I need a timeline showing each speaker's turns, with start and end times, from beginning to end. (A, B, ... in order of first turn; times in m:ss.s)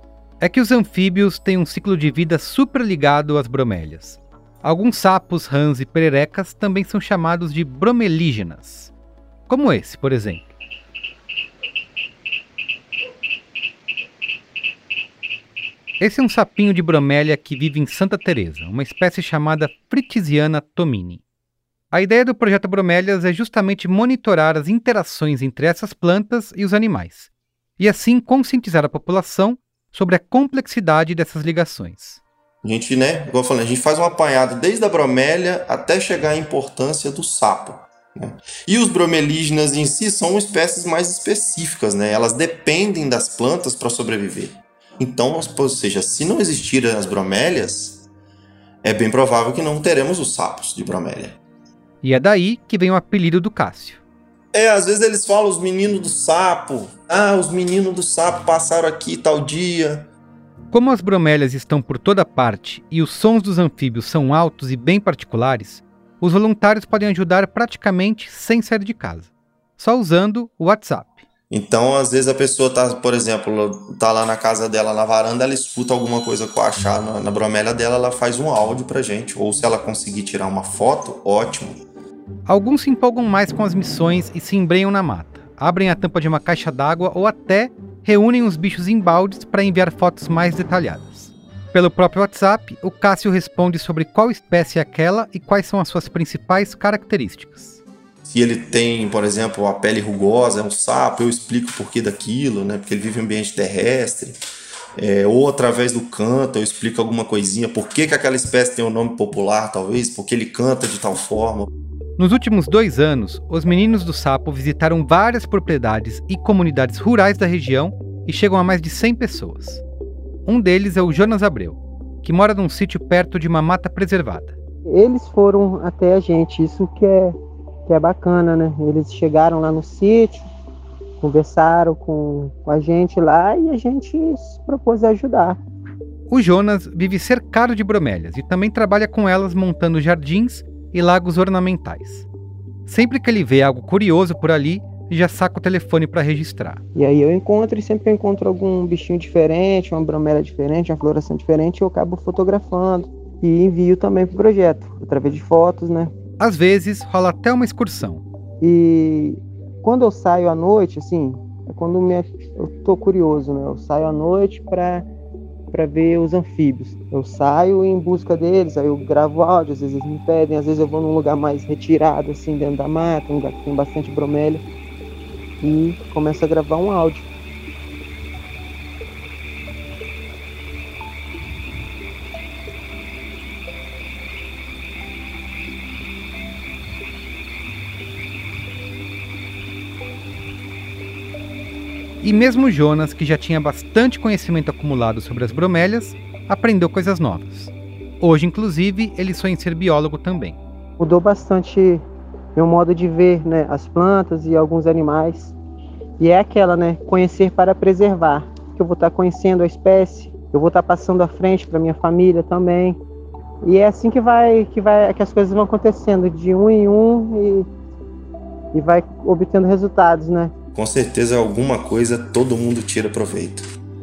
0:00.4-0:08.9 A
0:09.5-0:10.5 A
0:16.0-0:21.2 A
0:21.9-0:32.2 A
0:32.6-0:48.0 B
0:48.8-0:51.4 B
0:52.0-0:54.0 A
0:54.5-1:00.1 B
1:00.7-1:11.2 A
1:11.5-1:21.8 B
1:22.5-1:37.8 A
1:38.2-1:44.4 B
1:45.0-1:51.7 B
1:52.2-1:59.8 A
2:00.4-2:04.6 A
2:04.8-2:07.3 C
2:07.8-2:10.5 C
2:11.2-2:15.6 C
2:16.3-2:22.3 A
2:22.8-2:26.8 A
2:26.9-2:36.1 C
2:36.4-2:38.2 A
2:38.6-2:45.1 C
2:45.7-2:54.6 C
2:55.6-2:57.3 C
3:12.2-3:20.6 A
3:21.0-3:22.0 C
3:22.6-3:25.5 C
3:26.2-3:33.0 C
3:33.6-3:37.7 C
3:38.7-3:40.5 C
3:40.7-3:43.6 B